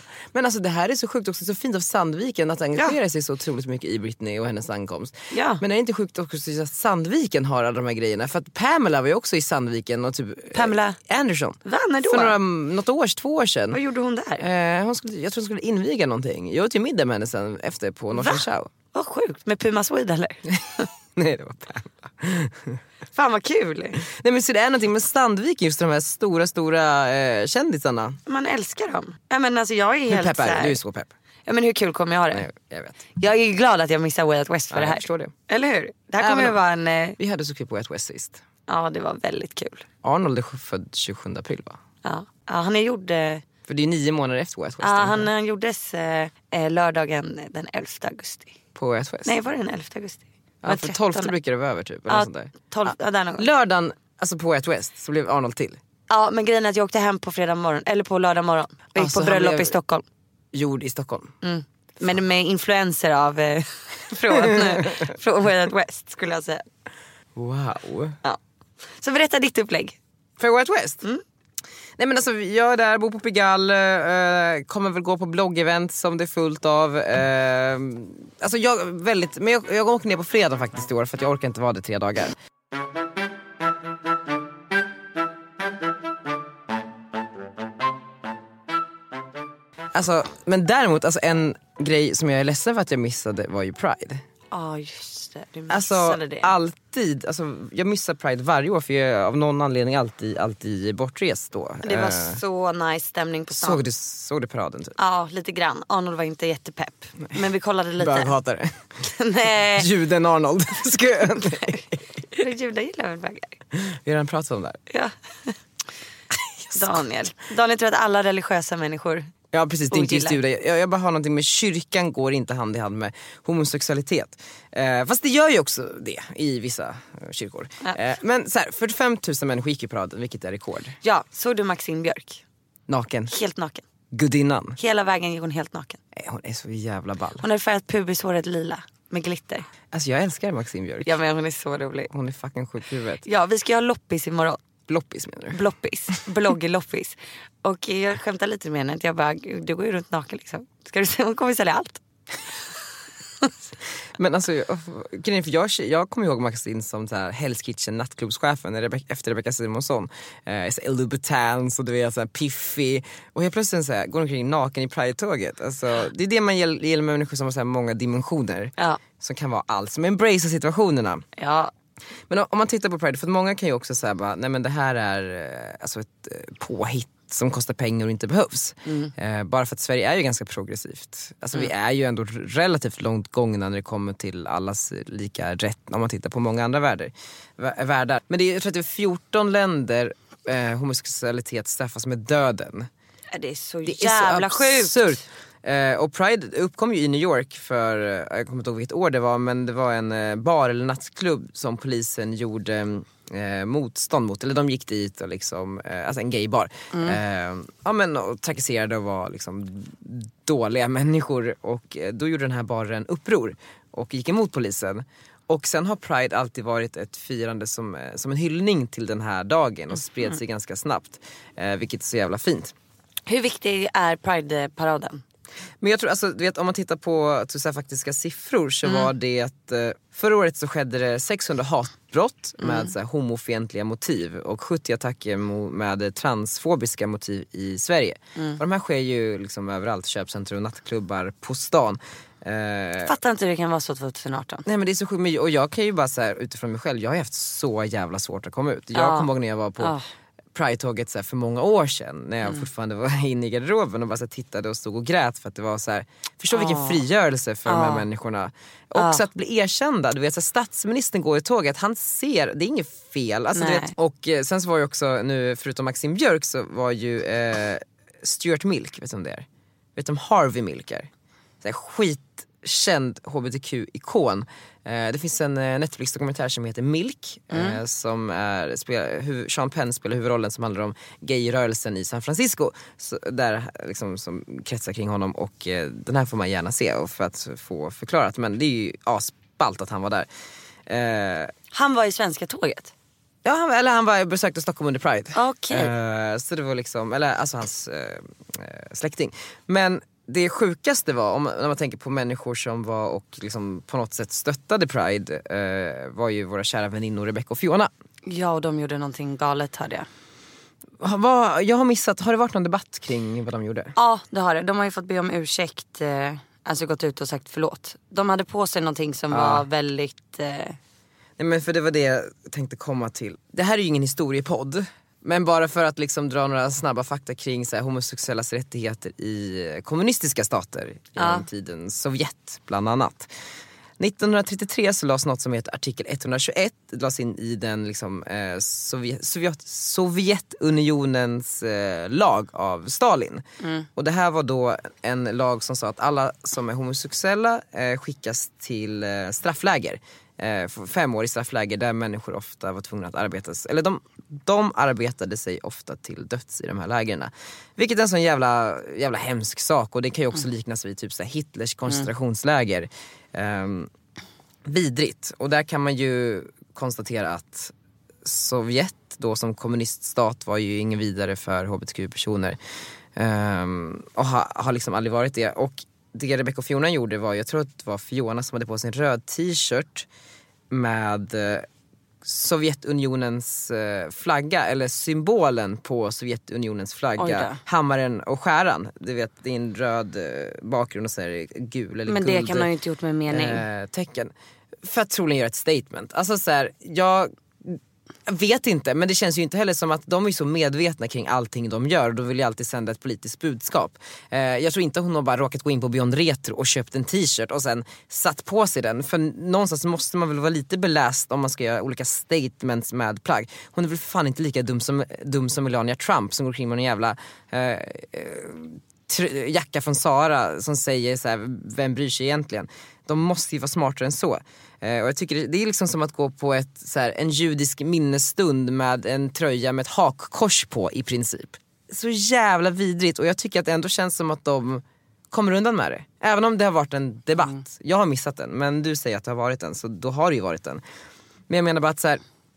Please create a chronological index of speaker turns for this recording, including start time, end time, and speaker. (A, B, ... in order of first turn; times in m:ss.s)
0:00.3-0:13.8 A
0:05.3-0:05.6 B
0:10.5-0:11.0 B
0:11.6-0:12.4 B
0:13.7-0:14.4 B
0:14.4-0:18.7 A
0:18.1-0:18.4 B
0:18.9-0:20.8 B
0:21.2-0:22.8 A
0:23.1-0:24.0 B
0:24.1-0:28.2 A
0:28.3-0:30.8 B
0:30.1-0:31.1 A
0:31.5-0:32.5 B
0:32.3-0:33.0 A
0:33.2-0:37.2 B
0:34.7-0:35.3 A
0:36.2-0:36.6 A
0:37.2-0:38.4 A
0:38.7-0:39.8 B
0:40.0-0:41.8 A
0:42.0-0:43.4 B
0:43.7-0:45.3 A
0:44.8-0:48.6 B
0:48.8-0:49.4 A
0:49.2-0:51.3 B
0:50.6-0:55.8 A
0:52.1-0:53.5 B
0:56.1-1:00.0 B
0:59.0-0:59.8 A
1:00.5-1:01.3 A
1:01.4-1:06.6 B
1:04.4-1:05.0 A
1:07.4-1:08.2 A
1:09.0-1:10.0 B
1:10.4-1:11.0 A
1:12.0-1:22.4 A
1:29.9-1:34.2 A
1:34.5-1:36.5 B
1:35.7-1:42.4 A
1:41.8-1:43.8 B
1:43.6-1:45.0 A
1:45.0-1:48.3 B
1:48.0-1:48.8 A
1:49.0-1:49.9 B
1:49.7-1:52.0 A
1:51.4-1:51.8 B
1:52.3-1:53.5 B
1:53.7-1:54.8 A
1:54.9-1:55.6 B
1:56.7-1:59.3 B
1:59.5-2:11.0 A
1:59.9-2:00.4 B
2:11.0-2:12.4 B
2:12.9-2:13.3 A
2:13.3-2:13.8 B
2:14.1-2:14.8 A
2:14.8-2:16.0 B
2:16.2-2:17.4 A
2:17.4-2:19.7 B
2:19.9-2:21.1 A
2:21.0-2:22.1 B
2:22.1-2:23.2 A
2:23.2-2:24.6 B
2:24.9-2:25.6 A
2:25.5-2:32.0 B
2:34.2-2:51.2 A
2:51.4-2:51.7 B
2:52.3-3:12.9 A
2:58.8-2:59.1 B
3:13.3-3:15.1 B
3:13.9-3:42.7 A
3:26.9-3:27.2 B
3:43.3-3:45.2 B
3:45.8-4:03.1 A
3:48.8-3:49.1 B
3:52.6-3:52.9 B
4:03.0-4:04.6 B
4:04.7-4:09.9 A
4:09.0-4:10.0 B
4:10.6-4:31.1 A
4:16.5-4:17.0 B
4:17.7-4:18.1 B
4:19.0-4:19.2 B
4:23.6-4:23.9 B
4:31.6-4:50.3 A
4:37.5-4:37.8 B
4:50.9-4:51.5 A
4:51.7-4:52.9 B
4:53.4-5:07.9 A
4:55.4-4:55.9 B
5:08.2-5:10.1 B
5:11.0-5:14.0 A
5:14.0-5:20.8 B
5:19.3-5:19.6 A
5:21.4-5:33.3 A
5:31.2-5:31.5 B
5:34.0-5:43.4 A
5:43.6-5:43.9 B
5:44.0-6:03.9 A
6:04.7-6:07.7 A
6:08.2-6:12.6 A
6:13.2-6:20.1 A
6:20.7-6:21.7 A
6:22.2-6:32.7 A
6:27.2-6:27.6 B
6:32.1-6:33.6 B
6:33.3-6:34.3 A
6:34.8-7:20.8 A
7:21.5-7:22.2 A